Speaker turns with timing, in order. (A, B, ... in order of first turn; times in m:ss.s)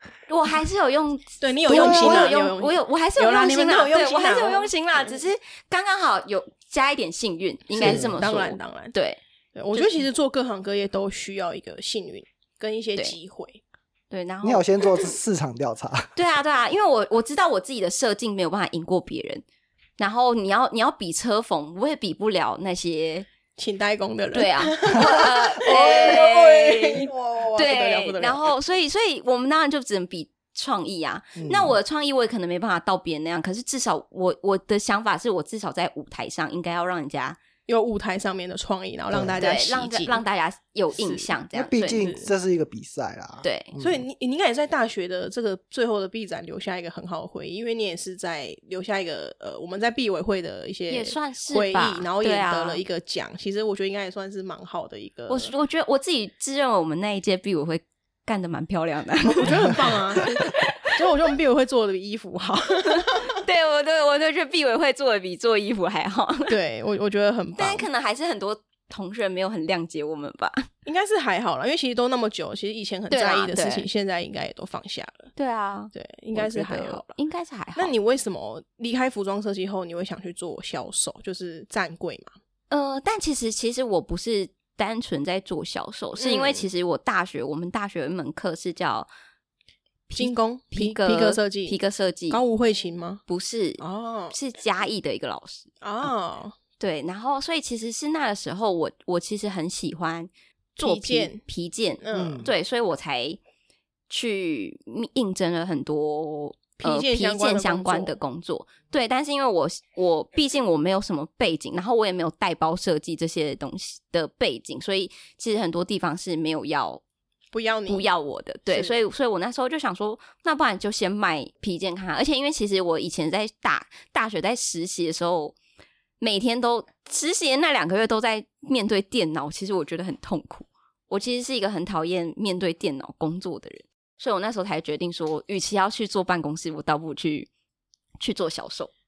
0:00.3-0:09.2 A
0:01.4-0:04.7 B
0:01.7-0:02.4 C
0:07.7-0:08.9 B
0:07.8-0:08.2 C
0:09.6-0:13.6 B
0:09.7-0:10.1 A
0:14.1-0:14.8 A
0:14.4-0:16.1 C
0:16.2-0:19.4 A
0:20.0-0:23.3 A
0:23.6-0:28.5 B
0:24.3-0:37.4 A
0:25.0-0:25.3 C
0:31.4-0:31.8 C
0:37.7-0:40.2 B
0:39.1-0:39.4 C
0:39.4-0:42.0 A
0:40.9-0:41.3 B
0:41.5-0:44.1 C
0:42.0-0:42.3 B
0:43.4-0:43.7 A
0:43.8-0:55.5 B
0:50.9-0:52.8 A
0:55.3-1:00.7 A
0:59.4-1:03.4 B
1:02.9-1:06.6 A
1:06.5-1:07.9 B
1:07.6-1:10.7 A
1:10.8-1:15.3 B
1:13.1-1:13.9 A
1:15.4-1:17.9 A
1:15.9-1:17.1 B
1:17.8-1:22.3 B
1:22.7-1:29.1 A
1:26.2-1:26.7 B
1:30.1-1:32.4 A
1:30.2-1:31.8 B
1:32.3-1:33.2 B
1:33.3-1:35.7 A
1:33.8-1:34.4 B
1:35.8-1:36.6 B
1:36.8-1:43.4 A
1:40.8-1:41.4 B
1:42.0-1:42.4 B
1:42.1-1:42.5 C
1:44.1-1:57.0 A
1:46.8-1:48.2 B
1:57.5-1:58.1 B
1:57.9-2:05.6 A
1:58.7-1:59.0 B
2:06.2-2:17.5 A
2:18.2-2:18.9 A